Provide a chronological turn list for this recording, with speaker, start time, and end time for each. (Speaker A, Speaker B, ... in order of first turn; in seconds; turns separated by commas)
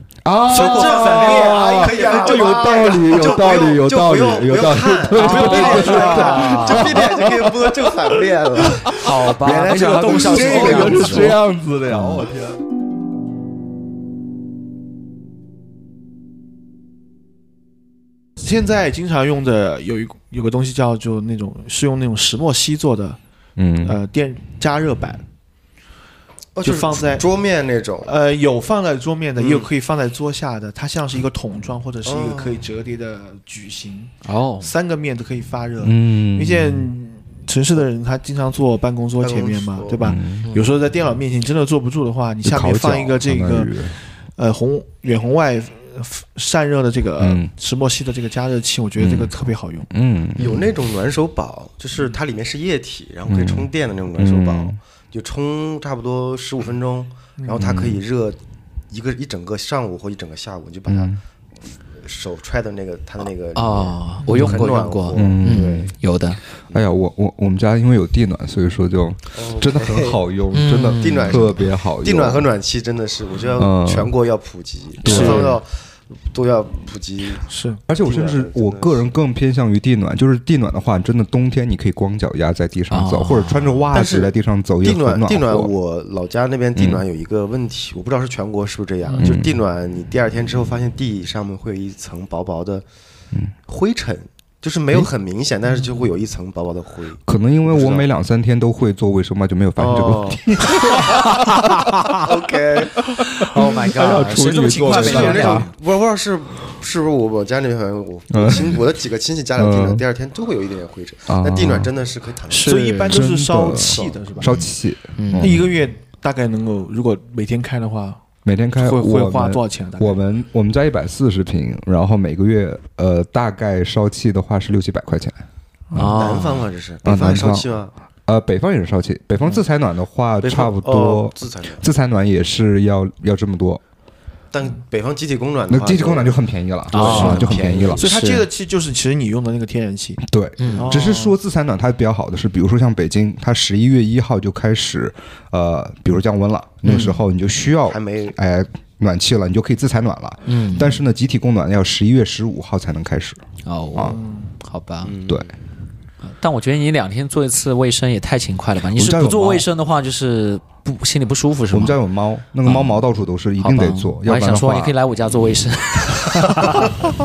Speaker A: 0.2-8.1, Speaker B: 0.5-11.3, Speaker C: 0.5-3.2, Speaker D: 5.1-6.9, Speaker C: 5.2-6.6, Speaker A: 8.6-9.1, Speaker D: 8.9-11.4, Speaker A: 10.1-12.6, Speaker C: 18.4-23.2, Speaker A: 23.6-24.0, Speaker C: 23.8-25.2, Speaker B: 26.5-28.1, Speaker C: 26.6-27.2, Speaker C: 28.1-43.8, Speaker B: 29.4-29.7, Speaker B: 32.0-32.7, Speaker D: 34.2-34.7, Speaker A: 35.8-36.9, Speaker B: 39.2-40.2, Speaker A: 40.0-40.5, Speaker A: 42.4-44.0, Speaker C: 44.4-49.9, Speaker A: 47.2-47.5, Speaker A: 49.0-49.3, Speaker A: 49.9-50.6, Speaker B: 50.4-58.4, Speaker A: 53.3-54.8, Speaker C: 57.4-57.6, Speaker A: 57.6-58.0, Speaker B: 58.9-61.1, Speaker A: 60.9-61.2, Speaker B: 62.0-65.9, Speaker D: 63.5-66.4, Speaker A: 65.1-65.9, Speaker A: 66.7-72.5, Speaker B: 69.3-70.2, Speaker D: 70.5-71.5, Speaker B: 70.9-75.7, Speaker A: 73.6-74.1, Speaker A: 75.0-75.5, Speaker D: 75.0-75.5, Speaker C: 75.1-75.5, Speaker B: 76.2-77.5, Speaker C: 77.5-77.8, Speaker A: 77.9-85.7, Speaker B: 78.0-79.0, Speaker D: 82.9-83.8, Speaker B: 83.9-92.8, Speaker A: 86.8-87.0, Speaker A: 89.2-89.5, Speaker B: 93.7-98.0, Speaker A: 97.3-102.1, Speaker B: 99.8-100.6, Speaker D: 101.0-102.2, Speaker B: 102.2-103.0, Speaker A: 103.2-105.7, Speaker D: 103.3-105.7, Speaker B: 104.8-113.0, Speaker A: 108.3-108.8, Speaker A: 109.6-110.0, Speaker A: 111.3-111.9, Speaker D: 112.5-113.2, Speaker C: 112.6-114.5, Speaker A: 113.1-115.7, Speaker B: 113.7-114.2, Speaker D: 115.2-115.5, Speaker C: 115.4-118.2, Speaker A: 118.4-125.4, Speaker C: 118.8-120.2, Speaker A: 125.9-126.2, Speaker D: 125.9-126.7, Speaker B: 126.0-127.9, Speaker A: 127.0-127.7, Speaker A: 128.2-133.8, Speaker B: 130.4-131.8, Speaker B: 134.5-136.3, Speaker A: 135.7-138.0, Speaker B: 136.9-138.2, Speaker D: 136.9-138.4, Speaker C: 137.1-137.4, Speaker C: 137.9-140.2, Speaker A: 140.2-153.4, Speaker D: 140.6-140.9, Speaker C: 140.8-141.3, Speaker D: 146.8-147.2, Speaker B: 147.9-148.3, Speaker D: 150.4-150.9, Speaker D: 153.6-155.1, Speaker C: 154.1-154.5, Speaker B: 155.0-155.5, Speaker D: 156.2-161.9, Speaker A: 158.9-159.7, Speaker A: 161.7-164.9, Speaker D: 162.6-163.1, Speaker D: 163.6-166.9